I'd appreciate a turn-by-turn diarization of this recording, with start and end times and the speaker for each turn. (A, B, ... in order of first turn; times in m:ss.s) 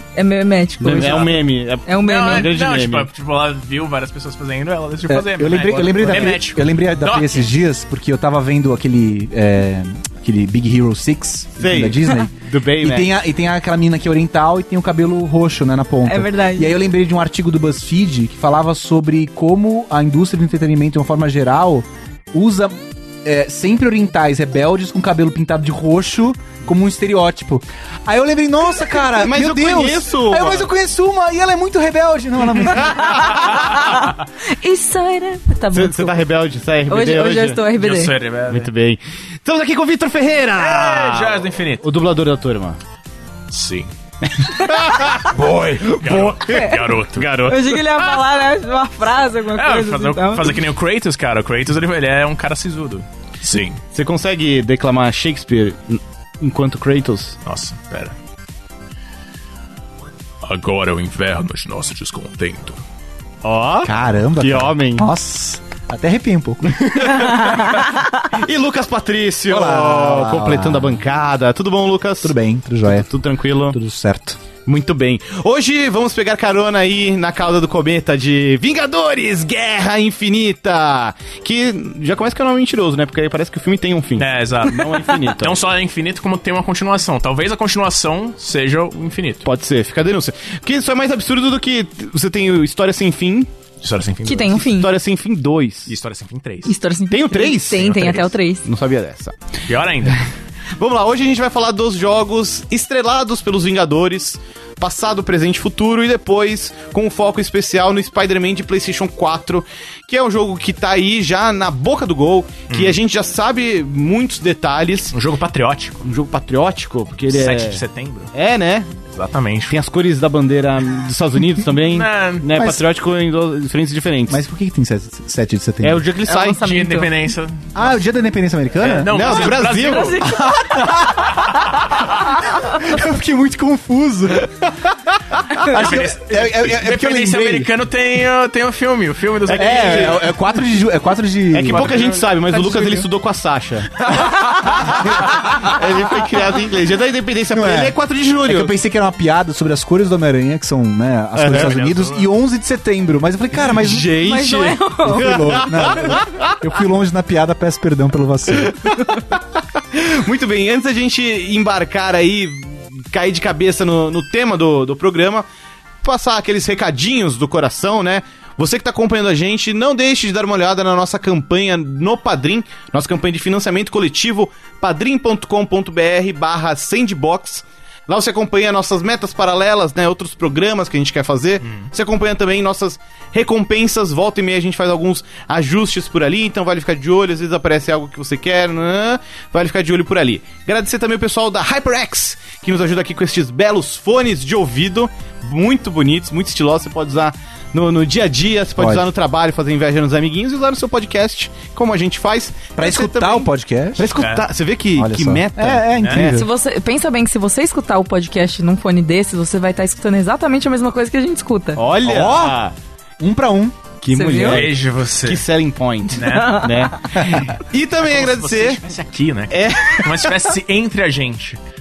0:00.2-0:02.5 A
0:00.8-0:03.1 B
0:00.8-0:01.4 C
0:02.0-0:07.5 C
0:05.1-0:33.4 D
0:11.6-0:13.1 B
0:16.1-0:16.7 A
0:29.2-0:30.7 B
0:32.7-0:33.6 B
0:33.1-0:36.2 A
0:35.7-0:37.6 B
0:36.9-0:38.1 A
0:37.7-0:38.7 C
0:38.5-0:42.8 B
0:40.6-0:41.9 C
0:43.5-0:43.9 C
0:44.3-0:47.3 B
0:44.7-0:45.0 A
0:45.8-0:48.2 C
0:46.5-0:46.8 A
0:47.4-0:50.6 A
0:49.5-0:53.8 C
0:53.9-0:57.4 B
0:57.4-0:58.1 C
1:00.4-1:02.8 C
1:03.4-1:05.1 B
1:03.8-1:07.3 D
1:06.8-1:12.4 B
1:07.2-1:08.0 A
1:09.5-1:11.0 D
1:12.2-1:13.1 D
1:12.9-1:13.8 B
1:13.6-1:14.4 D
1:14.7-1:25.6 B
1:24.2-1:29.5 C
1:29.4-1:33.5 B
1:33.8-1:34.7 C
1:34.2-1:34.9 A
1:34.7-1:35.9 B
1:35.9-1:36.8 C
1:36.7-1:38.6 A
1:37.1-1:39.4 B
1:37.8-1:38.0 C
1:39.7-1:40.2 C
1:40.8-1:55.1 B
1:52.7-1:53.0 C
1:55.1-1:56.0 C
1:56.0-1:57.8 B
1:57.3-1:58.3 C
1:58.3-1:59.0 B
1:59.1-1:59.8 C
1:59.7-2:04.4 B
2:01.8-2:02.5 C
2:02.5-2:02.8 D
2:04.3-2:06.0 D
2:05.8-2:06.6 B
2:06.3-2:07.1 A
2:06.5-2:07.9 C
2:07.8-2:09.6 D
2:08.8-2:10.2 C
2:09.0-2:10.2 B
2:09.7-2:11.4 A
2:10.2-2:15.0 D
2:15.5-2:17.7 D
2:15.6-2:20.3 C
2:19.5-2:20.2 B
2:19.5-2:22.0 D
2:21.5-2:28.7 B
2:21.6-2:22.4 C
2:22.6-2:23.1 D
2:24.1-2:25.6 D
2:27.5-2:28.0 D
2:28.5-2:34.2 D
2:31.4-2:31.7 B
2:31.4-2:32.3 C
2:33.6-2:36.6 B
2:34.2-2:35.7 A
2:35.1-2:38.9 D
2:38.6-2:45.5 B
2:46.0-3:26.4 B
3:01.6-3:01.9 C
3:18.8-3:19.1 D
3:22.8-3:24.3 D
3:24.2-3:24.4 C
3:25.0-3:26.5 D
3:26.0-3:26.3 C
3:26.3-3:31.8 A
3:31.8-3:32.7 B
3:32.0-3:32.6 D
3:33.2-3:33.8 D
3:34.0-3:38.8 B
3:34.1-3:34.6 A
3:34.3-3:35.5 C
3:36.1-3:36.7 C
3:36.2-3:37.2 A
3:38.0-3:41.6 C
3:39.5-3:40.5 B